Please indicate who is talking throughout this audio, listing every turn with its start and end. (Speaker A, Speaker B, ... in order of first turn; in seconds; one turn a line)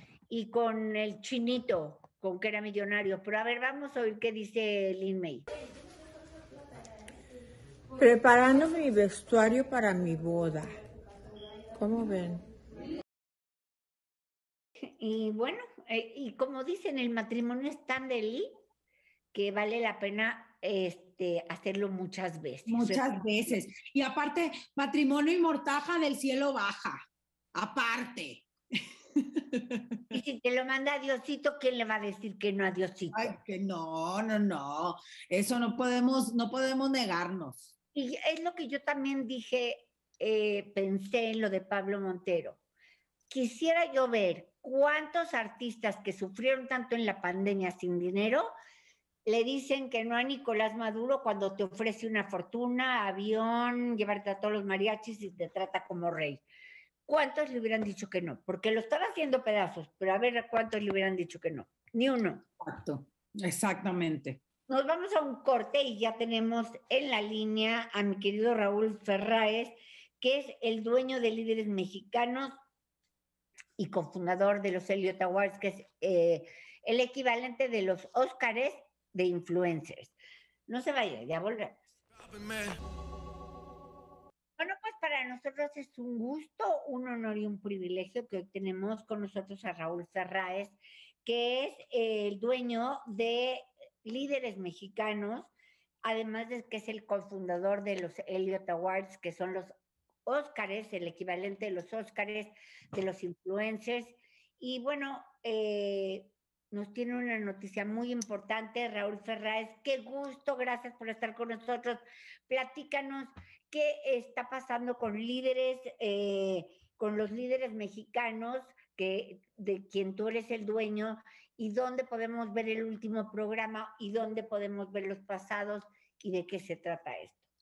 Speaker A: 0.3-5.5
Speaker B: 8.0-10.8
Speaker B: 11.8-12.5
Speaker A: 15.0-18.5
Speaker A: 19.3-23.4
Speaker C: 22.7-27.0
Speaker C: 27.6-30.0
Speaker A: 30.1-33.3
Speaker C: 33.1-37.7
Speaker A: 38.0-42.6
Speaker A: 43.3-48.5
Speaker A: 49.3-56.4
Speaker A: 57.1-62.5
Speaker C: 62.6-64.4
Speaker A: 64.7-72.5
Speaker A: 73.8-80.1
Speaker A: 80.7-81.8
Speaker A: 84.6-95.5
Speaker A: 96.0-99.7
Speaker A: 100.3-127.4